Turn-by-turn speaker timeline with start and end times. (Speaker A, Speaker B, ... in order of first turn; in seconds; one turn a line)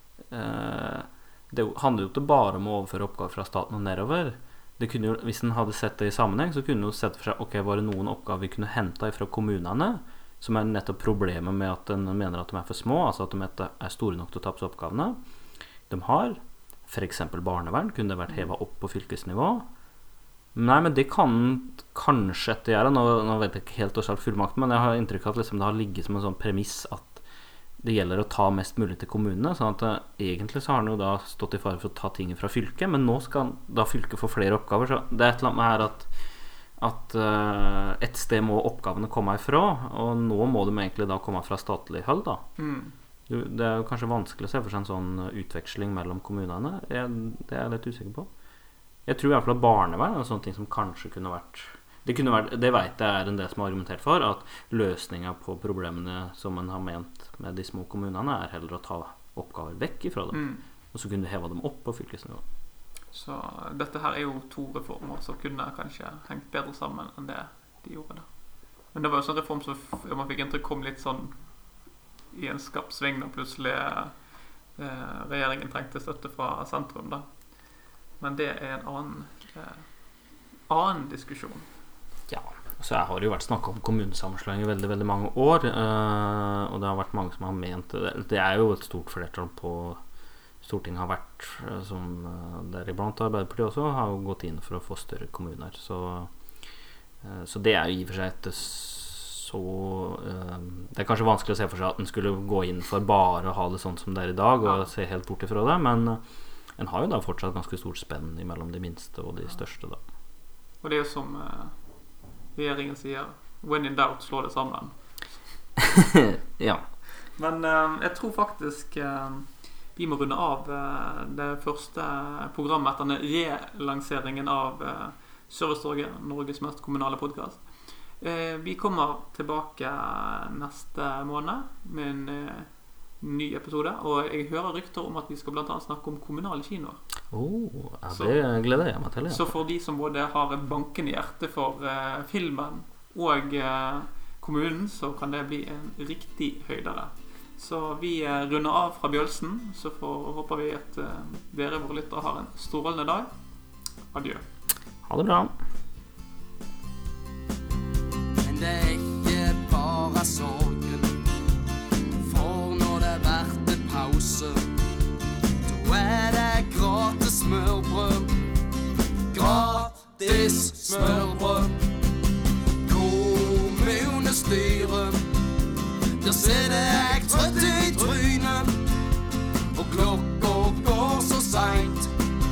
Speaker A: 0.3-15.2
Speaker A: 15.9-19.6
Speaker A: 20.5-27.2
Speaker A: 27.8-36.1
Speaker A: 36.8-42.4
Speaker B: 42.6-42.9
Speaker A: 43.3-48.3
Speaker A: 49.1-62.4
Speaker B: 60.3-60.6
Speaker B: 63.1-68.3
Speaker B: 68.9-71.5
Speaker B: 72.3-74.2
Speaker B: 74.8-77.3
Speaker B: 78.2-79.9
Speaker B: 80.7-81.7
Speaker A: 82.3-90.0
Speaker A: 90.6-96.3
Speaker A: 97.2-106.2
Speaker A: 106.8-110.0
Speaker B: 110.8-111.8
Speaker B: 112.5-115.4
Speaker A: 116.0-116.9
Speaker B: 117.3-137.0
Speaker A: 137.3-139.5
Speaker B: 138.1-138.4
Speaker B: 139.3-153.3
Speaker B: 154.1-154.4
Speaker A: 155.0-155.6
Speaker C: 158.4-161.1
Speaker C: 162.2-164.7
Speaker C: 165.7-168.4
Speaker C: 169.3-171.8
Speaker C: 172.8-175.2
Speaker C: 176.2-178.8
Speaker C: 179.8-182.1